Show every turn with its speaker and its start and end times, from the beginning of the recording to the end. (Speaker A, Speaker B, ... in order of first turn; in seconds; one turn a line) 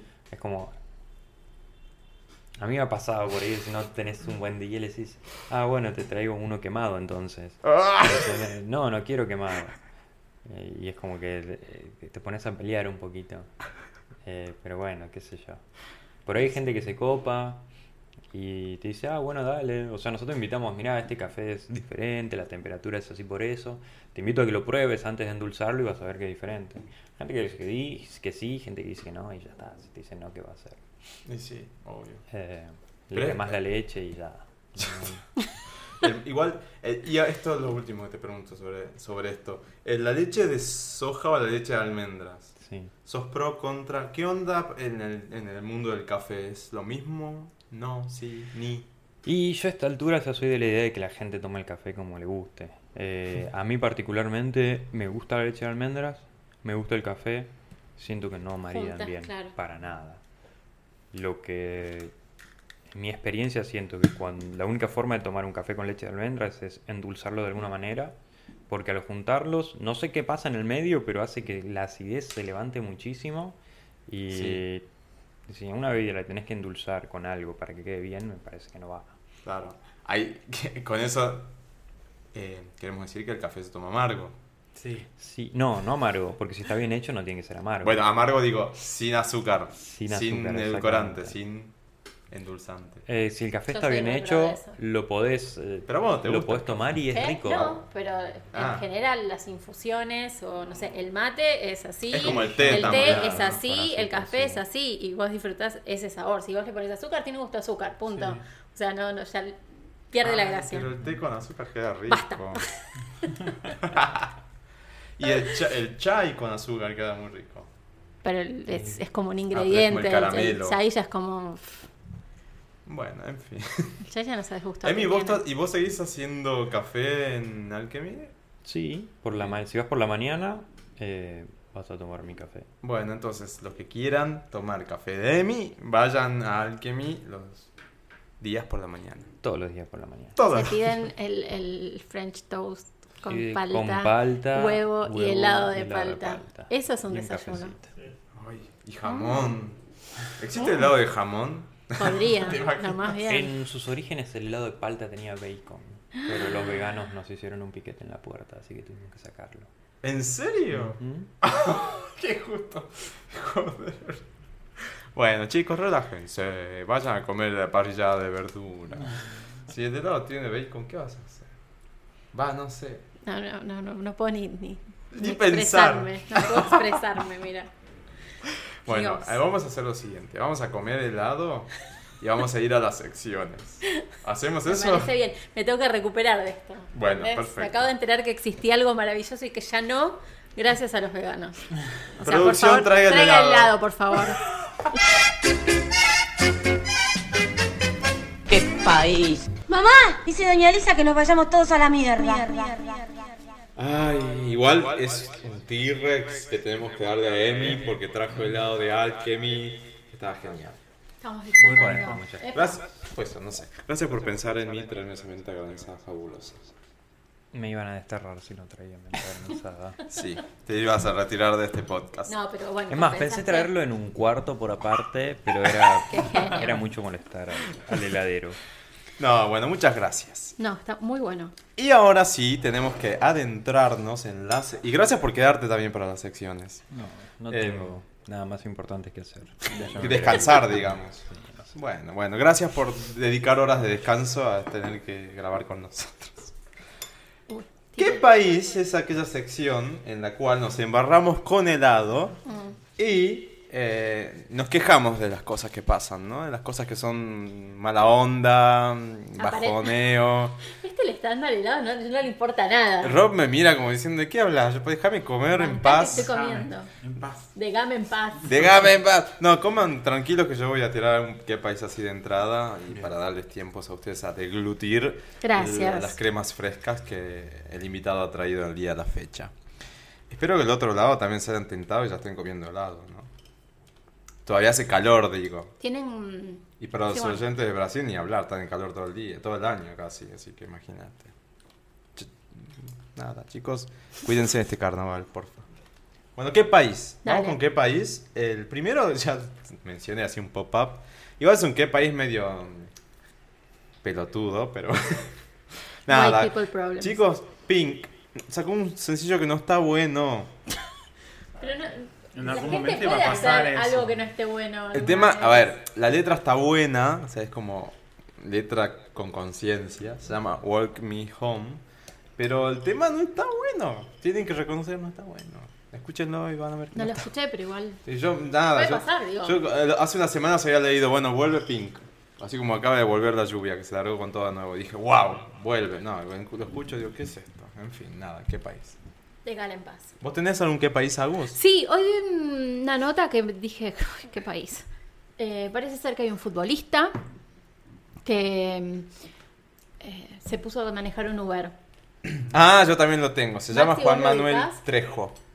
Speaker A: 0.3-0.7
Speaker A: 2.6-9.8
Speaker B: 7.7-8.4
Speaker A: 10.5-13.5
Speaker A: 14.2-15.6
Speaker A: 16.2-17.7
Speaker A: 18.3-30.8
Speaker B: 31.3-32.2
Speaker A: 32.3-35.4
Speaker B: 33.1-33.5
Speaker B: 36.0-48.9
Speaker A: 42.6-42.9
Speaker A: 49.2-60.2
Speaker C: 58.7-59.5
Speaker A: 61.1-62.1
Speaker A: 62.9-68.2
Speaker A: 68.7-74.8
Speaker B: 74.3-74.6
Speaker A: 75.5-79.2
Speaker B: 79.4-81.5
Speaker B: 82.3-84.4
Speaker D: 84.8-85.1
Speaker A: 85.2-88.0
Speaker B: 87.8-91.7
Speaker A: 89.8-91.3
Speaker B: 92.3-93.0
Speaker A: 93.1-97.8
Speaker C: 93.7-94.8
Speaker B: 95.9-96.8
Speaker C: 97.1-109.6
Speaker B: 98.5-98.8
Speaker B: 102.1-103.6
Speaker A: 102.5-104.6
Speaker C: 110.1-110.9
Speaker B: 110.2-112.7
Speaker C: 112.1-113.3
Speaker B: 113.8-114.3
Speaker B: 115.2-117.7
Speaker C: 118.2-121.9
Speaker B: 119.5-120.8
Speaker B: 122.9-124.0
Speaker C: 124.0-125.4
Speaker B: 124.8-128.3
Speaker A: 128.7-132.7
Speaker B: 132.8-137.7
Speaker B: 138.4-139.3
Speaker A: 139.4-140.4
Speaker B: 140.4-140.9
Speaker C: 140.5-147.8
Speaker A: 143.3-147.9
Speaker B: 148.4-149.8
Speaker C: 149.0-149.5
Speaker B: 150.4-153.2
Speaker C: 152.0-153.5
Speaker A: 153.2-159.7
Speaker B: 160.0-164.2
Speaker A: 160.8-161.3
Speaker B: 165.1-171.5
Speaker B: 172.3-173.1
Speaker C: 173.2-177.7
Speaker B: 175.1-176.9
Speaker B: 178.8-185.1
Speaker C: 178.9-179.4
Speaker C: 184.7-191.6
Speaker B: 186.9-187.9
Speaker C: 192.2-194.4
Speaker B: 192.2-193.8
Speaker E: 198.5-203.1
Speaker B: 203.8-210.8
Speaker C: 211.2-212.8
Speaker D: 211.6-212.2
Speaker A: 211.8-212.7
Speaker B: 212.5-216.7
Speaker A: 217.5-220.1
Speaker B: 220.1-222.3
Speaker C: 222.3-223.7
Speaker A: 222.9-228.6
Speaker C: 226.1-226.7
Speaker B: 229.2-230.6
Speaker C: 230.6-231.5
Speaker B: 231.8-236.8
Speaker A: 236.9-241.8
Speaker B: 237.5-237.9
Speaker B: 239.9-241.2
Speaker B: 241.7-246.5
Speaker C: 247.5-248.2
Speaker B: 248.0-252.4
Speaker C: 252.5-252.8
Speaker B: 253.0-260.6
Speaker C: 259.4-260.0
Speaker C: 260.7-263.2
Speaker B: 263.0-266.4
Speaker C: 265.5-266.9
Speaker D: 266.2-267.5
Speaker C: 267.5-268.5
Speaker B: 268.4-279.5
Speaker C: 275.4-276.2
Speaker B: 280.3-283.3
Speaker B: 284.5-285.7
Speaker C: 285.8-287.4
Speaker B: 286.8-291.3
Speaker B: 292.2-295.7
Speaker B: 296.4-302.9
Speaker C: 297.2-297.6
Speaker B: 304.0-305.3
Speaker B: 306.1-310.5
Speaker C: 306.1-307.2
Speaker C: 311.6-315.7
Speaker D: 312.3-314.2
Speaker B: 314.9-321.8
Speaker B: 322.4-327.3
Speaker C: 326.9-328.0
Speaker B: 328.1-339.0
Speaker C: 328.7-329.6
Speaker C: 339.4-340.1
Speaker B: 340.2-341.6
Speaker C: 341.5-344.9
Speaker C: 345.4-347.2
Speaker C: 348.2-349.1
Speaker C: 350.0-351.7
Speaker B: 352.4-355.4
Speaker C: 353.7-354.8